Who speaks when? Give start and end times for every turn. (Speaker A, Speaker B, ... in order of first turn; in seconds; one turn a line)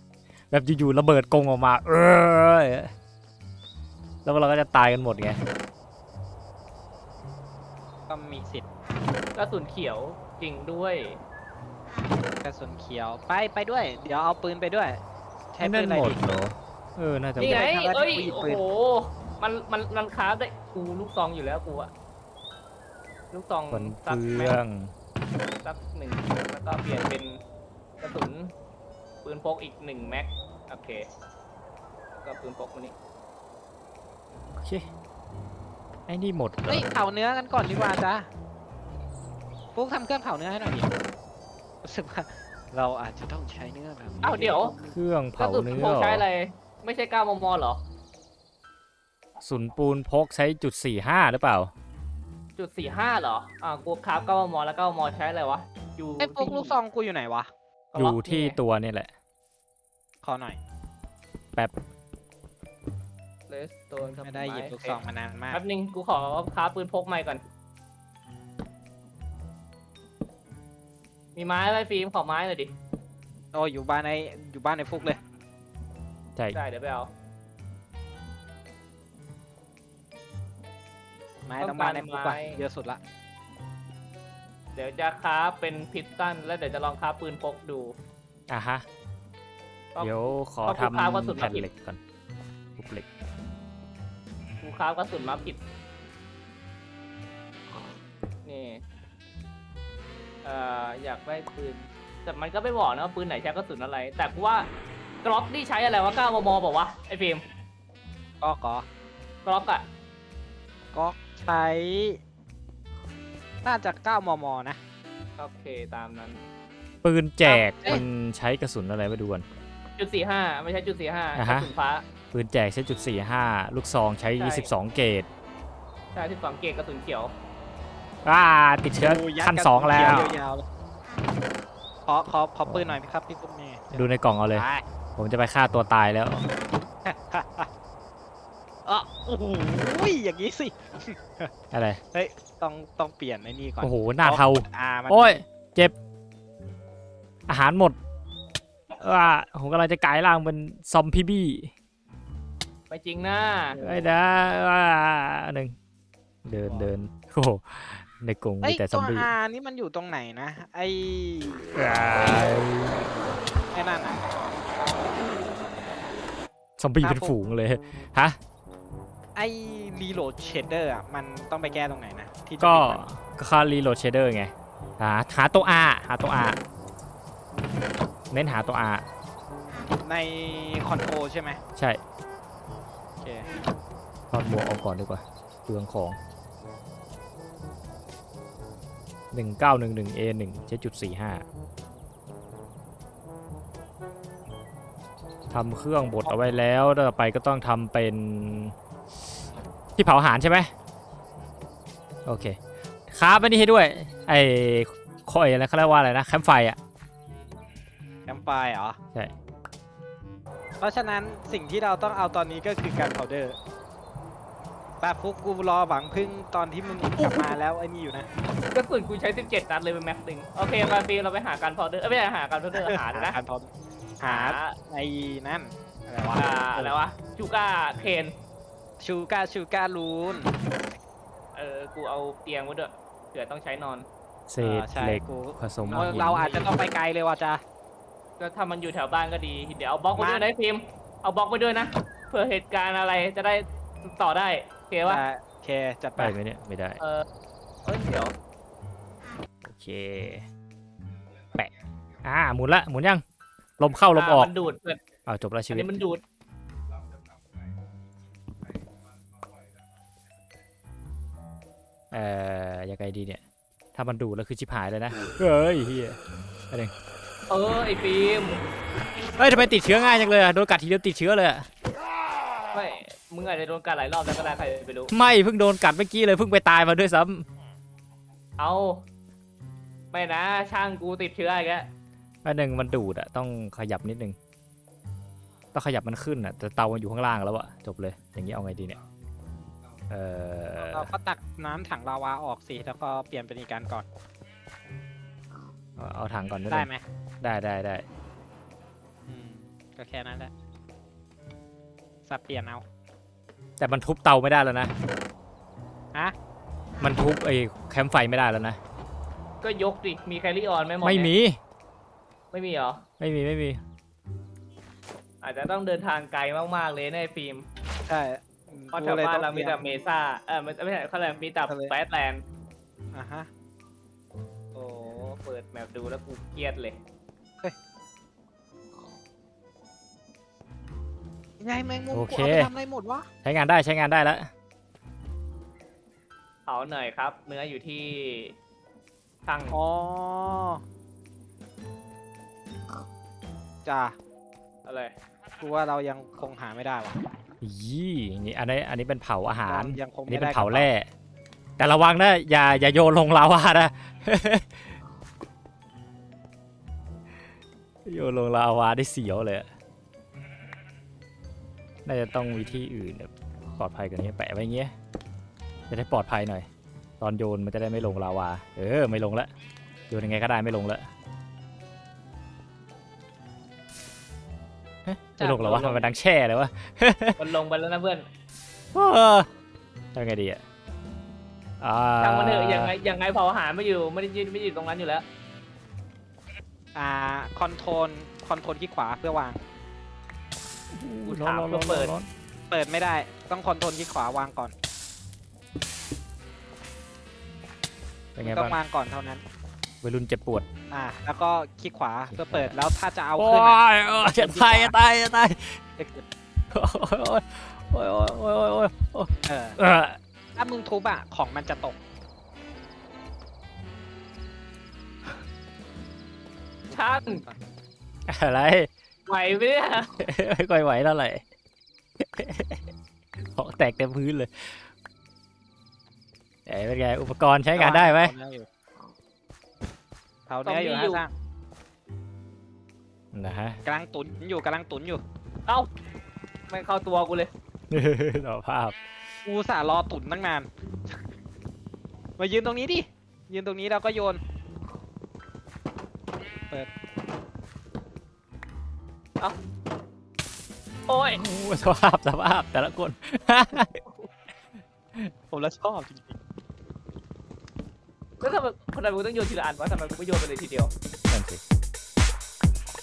Speaker A: 0.5-2.9
Speaker A: 4.2-5.4
Speaker B: 8.1-8.6
Speaker C: 9.3-11.2
Speaker B: 12.4-15.0
Speaker B: 15.5-16.2
Speaker A: 15.6-17.6
Speaker B: 17.4-18.6
Speaker C: 17.4-21.9
Speaker C: 23.3-24.6
Speaker A: 23.7-24.9
Speaker C: 25.6-27.4
Speaker C: 28.0-28.5
Speaker C: 29.2-31.1
Speaker C: 32.2-32.9
Speaker A: 34.6-34.8
Speaker A: 36.1-36.9
Speaker B: 36.7-38.3
Speaker B: 39.7-40.9
Speaker B: 41.8-44.9
Speaker C: 44.2-44.8
Speaker A: 44.9-46.2
Speaker C: 45.4-47.8
Speaker A: 49.4-51.7
Speaker C: 52.6-56.8
Speaker B: 56.2-57.5
Speaker C: 57.9-58.6
Speaker A: 58.0-59.1
Speaker B: 60.2-60.6
Speaker C: 63.5-67.4
Speaker B: 64.2-65.6
Speaker C: 71.3-72.7
Speaker B: 73.5-75.2
Speaker C: 76.5-77.1
Speaker B: 81.5-83.0
Speaker C: 81.6-82.6
Speaker C: 84.8-88.0
Speaker A: 88.5-88.8
Speaker C: 89.9-91.7
Speaker A: 90.0-92.0
Speaker A: 92.8-93.1
Speaker C: 94.6-95.6
Speaker C: 98.5-98.8
Speaker C: 100.4-104.7
Speaker C: 105.2-107.4
Speaker B: 108.4-108.8
Speaker C: 109.5-109.9
Speaker B: 110.9-112.2
Speaker B: 113.6-114.8
Speaker C: 115.4-116.4
Speaker A: 117.0-119.4
Speaker B: 117.5-118.0
Speaker C: 120.0-122.0
Speaker A: 121.3-121.7
Speaker A: 122.3-125.3
Speaker C: 124.4-124.7
Speaker C: 126.1-127.3
Speaker A: 128.2-130.4
Speaker B: 129.0-130.7
Speaker B: 132.1-134.8
Speaker A: 132.7-133.0
Speaker A: 133.9-134.7
Speaker A: 135.2-136.5
Speaker B: 137.0-137.7
Speaker B: 138.8-141.5
Speaker A: 141.7-142.0
Speaker B: 142.1-145.4
Speaker A: 143.8-145.9
Speaker A: 147.5-147.9
Speaker A: 149.0-151.7
Speaker C: 152.9-153.8
Speaker B: 153.8-154.1
Speaker A: 153.8-155.7
Speaker A: 156.4-159.3
Speaker B: 158.6-161.7
Speaker A: 161.7-163.0
Speaker B: 163.7-164.2
Speaker A: 166.8-168.4
Speaker B: 167.0-167.3
Speaker B: 169.3-173.0
Speaker A: 172.6-176.6
Speaker A: 178.3-179.1
Speaker B: 180.0-181.6
Speaker B: 183.2-183.5
Speaker A: 184.3-186.2
Speaker A: 189.3-191.4
Speaker A: 195.5-198.7
Speaker A: 200.0-200.7
Speaker A: 202.2-202.6
Speaker A: 203.1-206.8
Speaker B: 208.3-209.0
Speaker B: 210.8-213.6
Speaker B: 215.0-218.3
Speaker C: 217.2-217.6
Speaker C: 218.7-223.3
Speaker B: 222.7-223.7
Speaker B: 224.2-226.9
Speaker C: 224.2-224.8
Speaker C: 226.3-228.3
Speaker B: 229.0-230.5
Speaker C: 231.6-234.1
Speaker A: 234.5-236.5
Speaker B: 234.6-237.6
Speaker C: 235.9-236.8
Speaker C: 238.4-245.2
Speaker B: 240.2-240.5
Speaker B: 245.1-246.4
Speaker A: 246.2-247.0
Speaker C: 247.8-248.3
Speaker A: 249.6-250.5
Speaker A: 252.2-253.2
Speaker A: 253.8-254.5
Speaker C: 254.1-255.0
Speaker A: 255.2-255.9
Speaker C: 255.7-256.2
Speaker A: 262.1-263.4
Speaker A: 263.9-266.1
Speaker C: 267.5-268.6
Speaker A: 269.4-271.7
Speaker C: 272.7-275.1
Speaker A: 275.1-277.4
Speaker C: 278.6-279.0
Speaker C: 280.1-281.9
Speaker A: 282.4-284.4
Speaker A: 285.7-289.0
Speaker A: 290.1-291.1
Speaker B: 290.8-294.0
Speaker A: 296.0-296.9
Speaker B: 296.7-297.0
Speaker A: 297.4-298.0
Speaker B: 299.3-300.5
Speaker B: 302.2-302.8
Speaker A: 303.8-304.9
Speaker A: 307.0-308.8
Speaker C: 309.6-311.3
Speaker A: 311.0-311.6
Speaker C: 312.5-313.0
Speaker A: 313.2-313.8
Speaker C: 315.4-317.6
Speaker B: 318.1-319.8
Speaker C: 318.9-322.4
Speaker B: 321.7-321.9
Speaker B: 323.1-323.5
Speaker C: 324.7-327.0
Speaker B: 331.6-333.3
Speaker A: 332.1-332.7
Speaker A: 333.4-334.5
Speaker C: 336.7-338.6
Speaker C: 339.4-339.8
Speaker B: 339.7-340.8
Speaker B: 343.8-344.1
Speaker C: 344.8-345.1
Speaker B: 345.6-347.2
Speaker A: 347.6-351.1
Speaker B: 349.7-350.9
Speaker A: 351.8-354.7
Speaker A: 358.1-359.7
Speaker A: 362.1-364.9
Speaker A: 365.9-366.7
Speaker A: 367.2-369.5
Speaker A: 370.1-371.1
Speaker A: 375.0-377.4
Speaker B: 375.4-376.0
Speaker C: 377.4-378.2
Speaker A: 378.9-379.5
Speaker A: 380.1-380.6
Speaker A: 381.8-382.9
Speaker C: 382.2-385.2
Speaker B: 386.9-389.6
Speaker A: 390.9-392.3
Speaker C: 391.2-392.1
Speaker B: 392.7-394.7
Speaker A: 398.4-398.8
Speaker B: 398.4-399.4
Speaker A: 400.0-400.7
Speaker B: 400.9-404.9
Speaker A: 402.3-402.7
Speaker A: 403.4-405.8
Speaker B: 406.0-406.2
Speaker A: 406.7-410.2
Speaker B: 409.4-409.8
Speaker B: 410.6-412.0
Speaker B: 416.9-417.6
Speaker C: 416.9-417.4
Speaker A: 418.3-418.9
Speaker C: 419.3-420.1
Speaker A: 420.2-421.4
Speaker A: 422.2-422.8
Speaker A: 423.5-424.8
Speaker A: 426.6-428.3
Speaker B: 427.8-428.7
Speaker B: 430.5-431.3
Speaker C: 430.6-431.2
Speaker A: 433.3-433.8
Speaker B: 433.8-435.2
Speaker C: 436.7-437.5
Speaker A: 437.9-439.0
Speaker B: 439.4-440.7
Speaker B: 442.4-444.4
Speaker C: 451.1-451.4
Speaker A: 451.4-454.0
Speaker B: 455.5-456.4
Speaker C: 458.4-460.9
Speaker A: 461.3-461.6